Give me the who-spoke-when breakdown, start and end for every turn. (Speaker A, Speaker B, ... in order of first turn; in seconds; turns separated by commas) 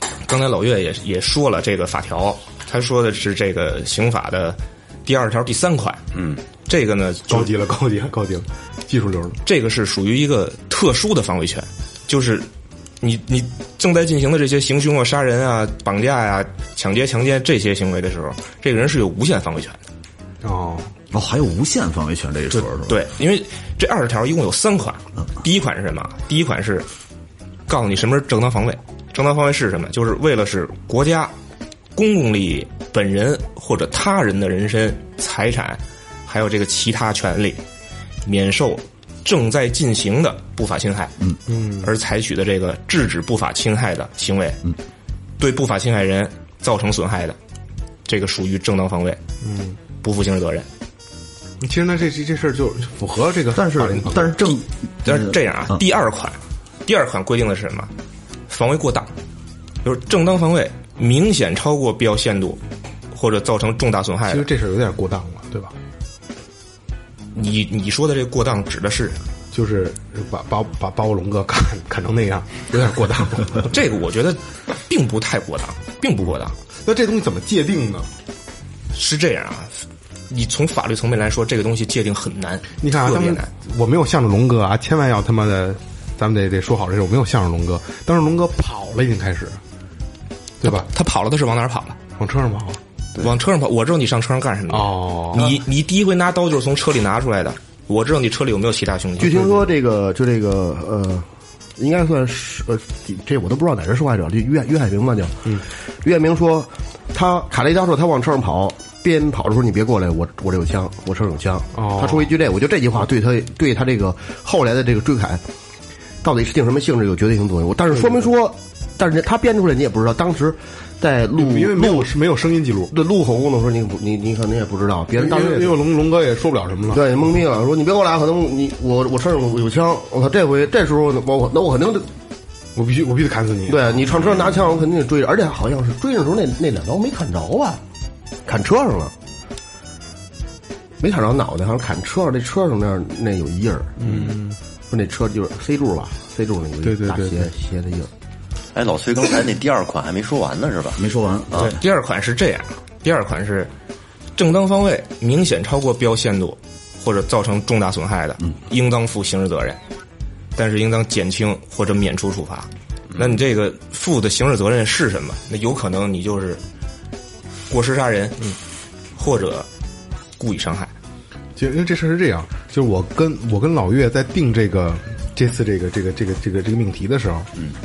Speaker A: 0.2-6.0, Speaker B: 6.1-6.4, Speaker A: 6.7-7.5, Speaker C: 7.3-9.4, Speaker A: 9.4-12.5, Speaker A: 13.0-19.8, Speaker C: 20.4-20.9, Speaker D: 21.1-23.0, Speaker A: 22.5-26.9, Speaker A: 27.7-31.3, Speaker A: 31.9-37.6, Speaker A: 38.2-41.1, Speaker C: 41.5-41.9, Speaker A: 41.8-44.6, Speaker A: 45.4-47.4, Speaker A: 48.1-49.2, Speaker C: 49.4-49.8, Speaker A: 50.0-50.7, Speaker C: 51.6-54.4, Speaker D: 53.5-55.8, Speaker A: 55.0-57.9, Speaker A: 58.5-59.1, Speaker A: 59.8-62.6, Speaker A: 63.1-64.5, Speaker C: 64.3-65.8, Speaker A: 67.3-69.2, Speaker C: 69.5-73.7, Speaker A: 73.7-76.5, Speaker C: 76.8-78.1, Speaker A: 78.9-83.5, Speaker C: 82.8-89.6, Speaker C: 90.6-90.9, Speaker A: 90.6-92.0, Speaker C: 92.2-92.8, Speaker A: 93.2-99.6, Speaker C: 94.7-95.6, Speaker E: 99.2-115.4, Speaker C: 111.7-112.3, Speaker E: 116.2-122.1, Speaker C: 118.0-118.3, Speaker C: 121.4-122.9, Speaker E: 122.9-125.8, Speaker C: 125.2-127.1, Speaker E: 126.9-132.1, Speaker C: 132.8-134.1, Speaker E: 133.7-137.8, Speaker E: 138.5-139.1, Speaker E: 141.0-143.9, Speaker C: 144.0-144.6, Speaker B: 144.1-144.3, Speaker E: 144.9-148.1, Speaker C: 146.8-147.5, Speaker B: 148.8-151.0, Speaker D: 151.0-151.8, Speaker A: 151.6-153.7, Speaker A: 154.4-159.8, Speaker A: 160.6-166.6, Speaker A: 167.7-168.4, Speaker A: 169.2-169.7, Speaker A: 170.4-170.9, Speaker C: 171.6-177.5